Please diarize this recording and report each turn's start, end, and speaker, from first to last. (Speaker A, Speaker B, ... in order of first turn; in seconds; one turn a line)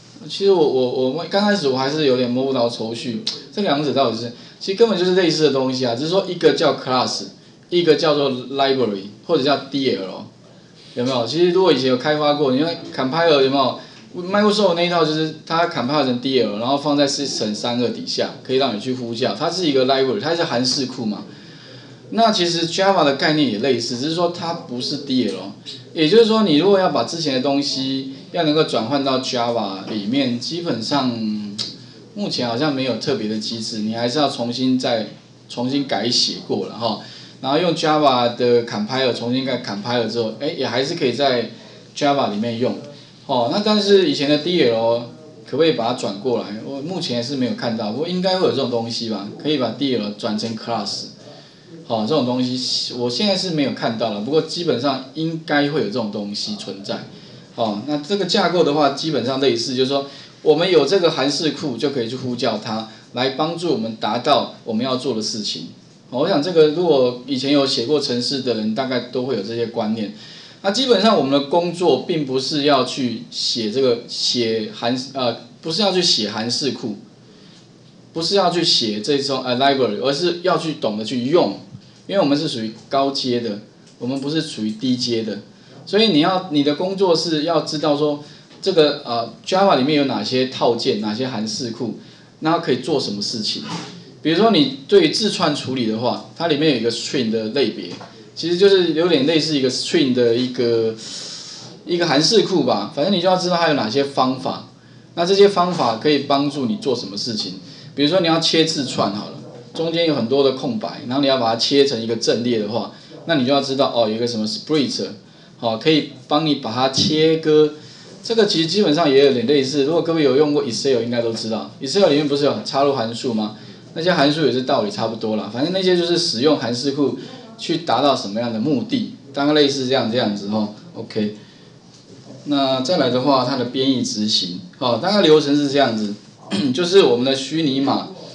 Speaker A: 0.2-10.3
Speaker A: 10.9-21.2
Speaker A: 22.1-51.1
Speaker A: 51.9-77.0
Speaker A: 78.1-93.7
Speaker A: 94.2-131.3
Speaker A: 132.4-138.1